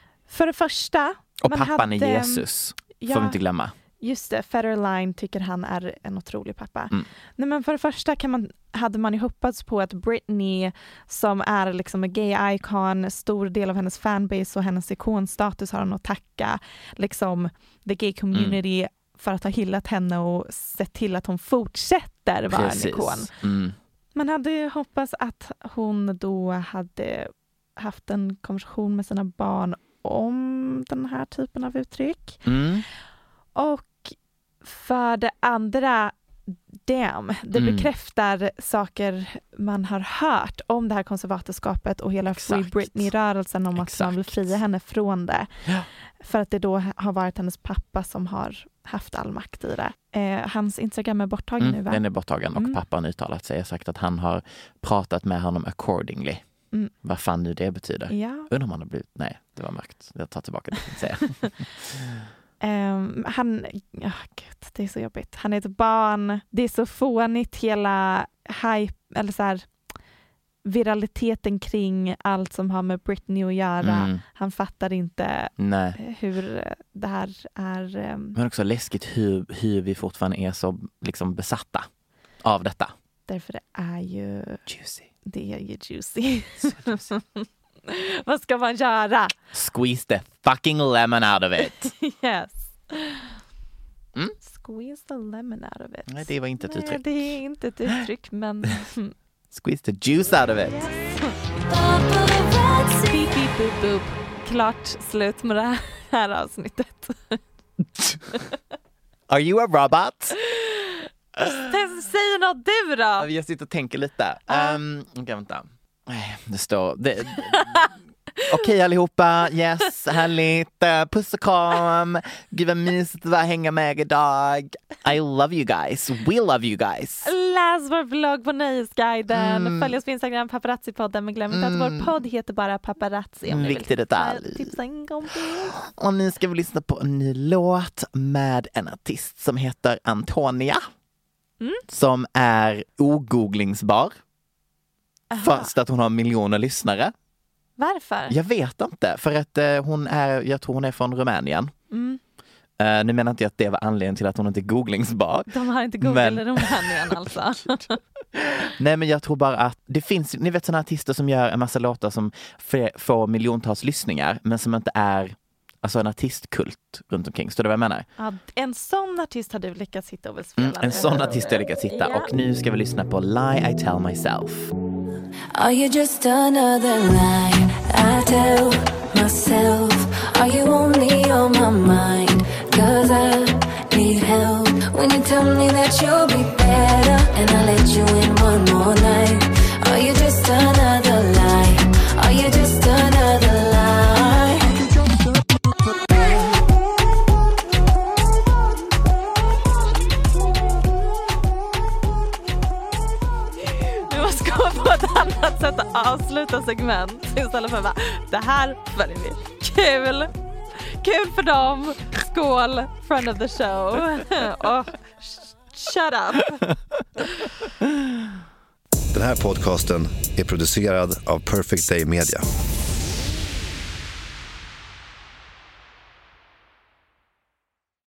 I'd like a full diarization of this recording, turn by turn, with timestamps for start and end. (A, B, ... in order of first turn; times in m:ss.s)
0:00.3-0:02.5 A
0:01.4-0:03.7 B
0:03.0-0:03.4 A
0:04.0-0:23.3 A
0:18.3-0:18.6 B
0:22.5-0:23.8 B
0:24.1-0:32.4 A
0:32.4-0:32.8 B
0:33.6-0:45.5 A
0:37.5-0:37.9 B
0:42.3-0:43.1 B
0:43.7-0:44.6 B
0:46.2-0:52.8 A
0:51.6-0:56.4 B
0:57.0-1:01.6 B
0:58.1-0:58.5 A
1:02.6-1:09.7 A
1:10.6-1:18.4 A
1:13.8-1:14.2 B
1:15.6-1:16.0 B
1:18.3-1:21.9 B
1:22.4-1:22.9 B
1:23.3-1:24.6 A
1:24.7-1:25.0 B
1:25.2-1:29.3 A
1:26.8-1:27.0 B
1:29.5-1:31.9 B
1:31.6-1:33.3 A
1:34.4-1:39.1 A
1:36.1-1:37.4 B
1:39.5-1:40.8 B
1:40.7-1:41.4 A
1:41.7-1:42.9 C
1:42.1-1:47.4 A
1:48.0-1:48.3 B
1:49.3-1:50.4 B
1:50.5-1:53.3 A
1:53.2-1:57.9 B
1:54.5-1:54.8 A
1:58.4-2:07.3 B
2:07.2-2:15.8 A
2:09.3-2:09.9 B
2:11.5-2:12.1 B
2:13.5-2:14.7 B
2:15.7-2:20.8 B
2:21.9-2:24.2 B
2:25.3-2:25.7 A
2:25.4-2:27.1 B
2:27.8-2:28.4 A
2:28.3-2:31.7 B
2:31.9-2:32.2 A
2:32.8-2:37.8 B
2:35.5-2:38.0 A
2:38.3-2:48.0 B
2:48.2-2:52.3 A
2:50.6-2:54.7 B
2:55.5-3:14.8 C
3:23.6-3:30.3 A
3:31.0-3:36.6 A
3:39.1-3:42.4 D